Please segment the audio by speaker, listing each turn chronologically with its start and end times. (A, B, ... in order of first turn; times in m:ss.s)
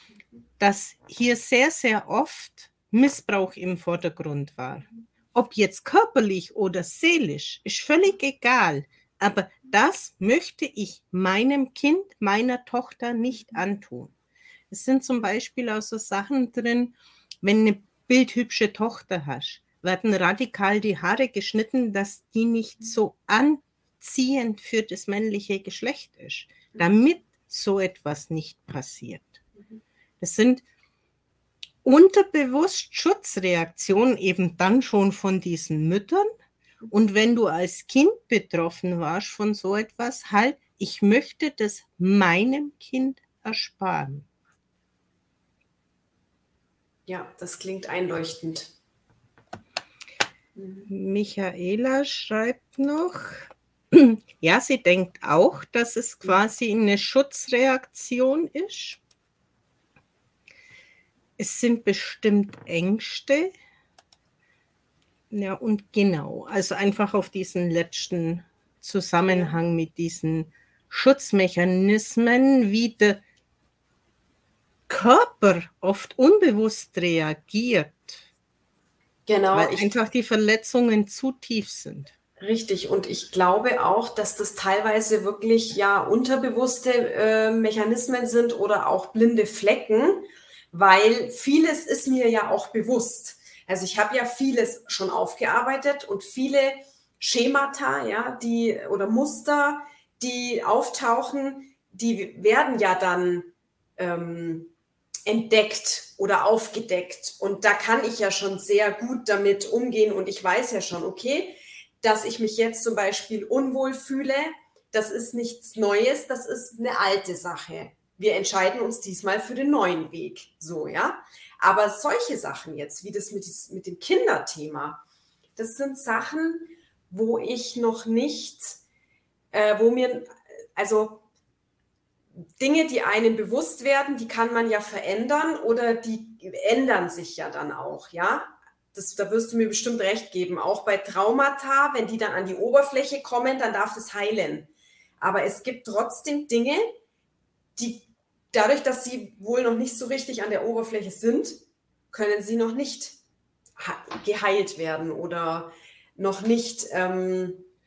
0:00.6-0:14.1 A
0:14.7-0:29.4 A
0:30.2-0:30.6 A
0:31.8-0:36.3 A
0:36.9-0:44.2 A
0:47.1-0:48.7 B
0:50.6-0:50.8 B
0:50.8-0:59.0 A
1:01.4-1:03.5 A
1:05.3-1:13.2 A
1:09.3-1:09.6 B
1:14.9-1:18.2 A
1:19.2-1:19.9 B
1:19.5-1:22.1 A
1:22.4-1:44.7 B
1:45.2-2:05.0 B
2:05.6-2:08.8 B
2:09.5-2:11.2 B
2:12.6-2:26.9 B
2:27.8-2:31.6 B
2:32.1-2:33.2 B
2:33.8-2:37.6 B